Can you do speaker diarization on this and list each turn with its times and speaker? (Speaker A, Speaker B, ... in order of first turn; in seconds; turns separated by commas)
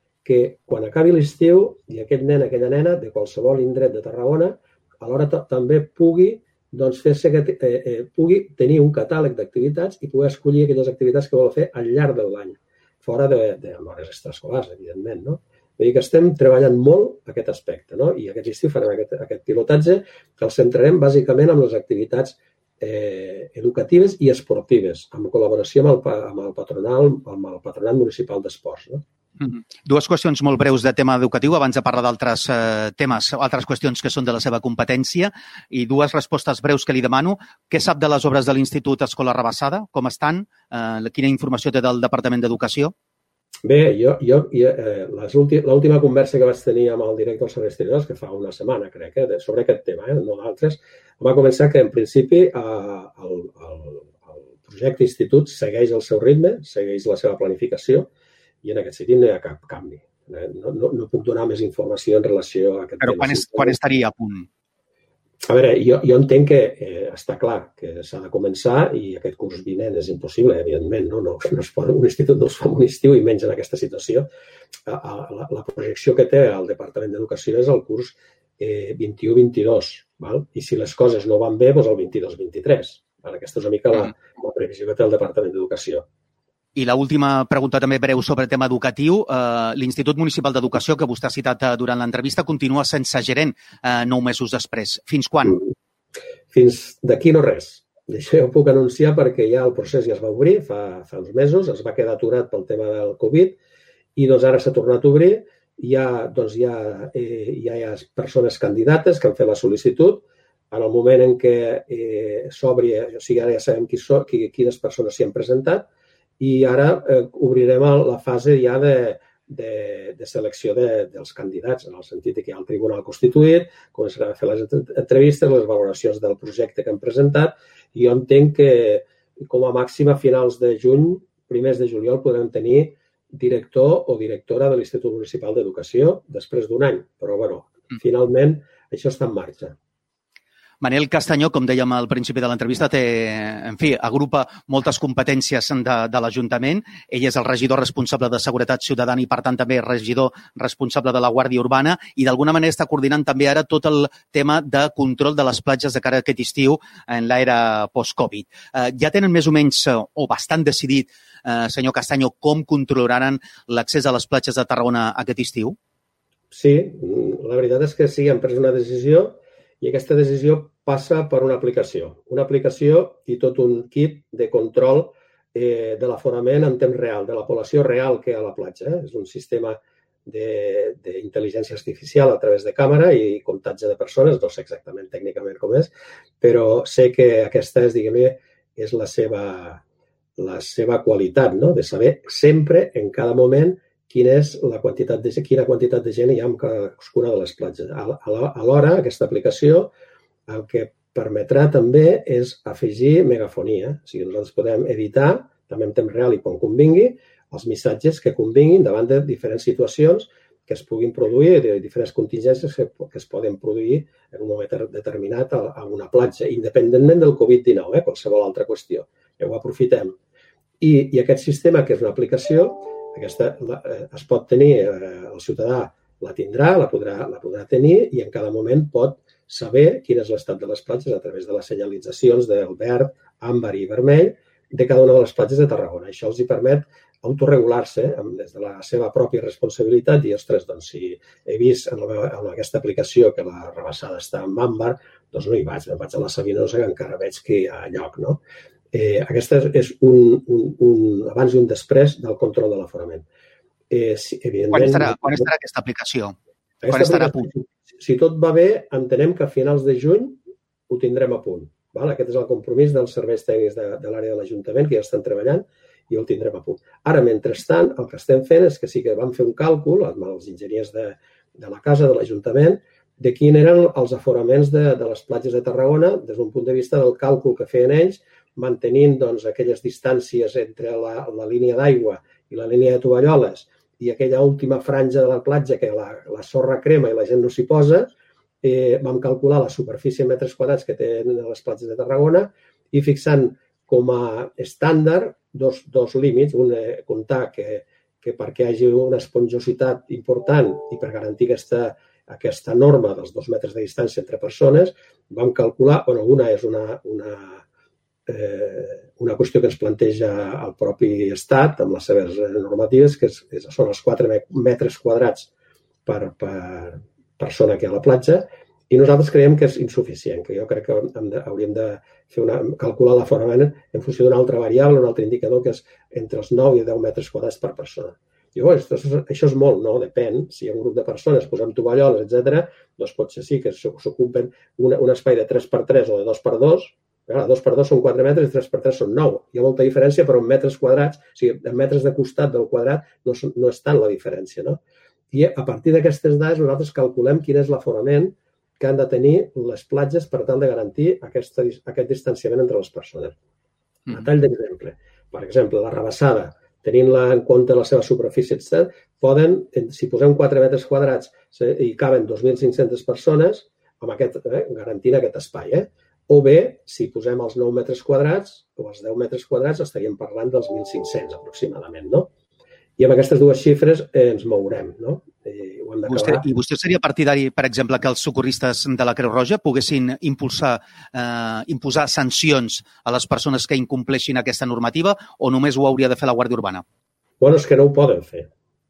Speaker A: 0.2-29.0, Speaker B: 29.4-42.9, Speaker A: 43.6-58.1, Speaker A: 58.6-63.8, Speaker B: 63.0-64.5, Speaker A: 65.4-74.3, Speaker A: 74.9-86.0, Speaker B: 86.8-95.6, Speaker A: 96.5-103.6, Speaker A: 104.2-115.9, Speaker A: 116.4-139.8, Speaker B: 140.8-165.8, Speaker A: 166.5-189.8, Speaker A: 190.4-199.9, Speaker A: 200.5-220.2, Speaker A: 220.8-248.4, Speaker A: 248.9-253.3, Speaker A: 253.9-255.5, Speaker B: 254.7-256.4, Speaker A: 256.8-260.4, Speaker B: 256.9-257.5, Speaker A: 260.9-288.1, Speaker A: 288.6-307.6, Speaker A: 308.3-315.5, Speaker A: 316.1-344.8, Speaker A: 345.3-353.4, Speaker A: 354.1-372.3, Speaker A: 373.0-376.4, Speaker B: 376.1-386.8, Speaker A: 387.4-388.5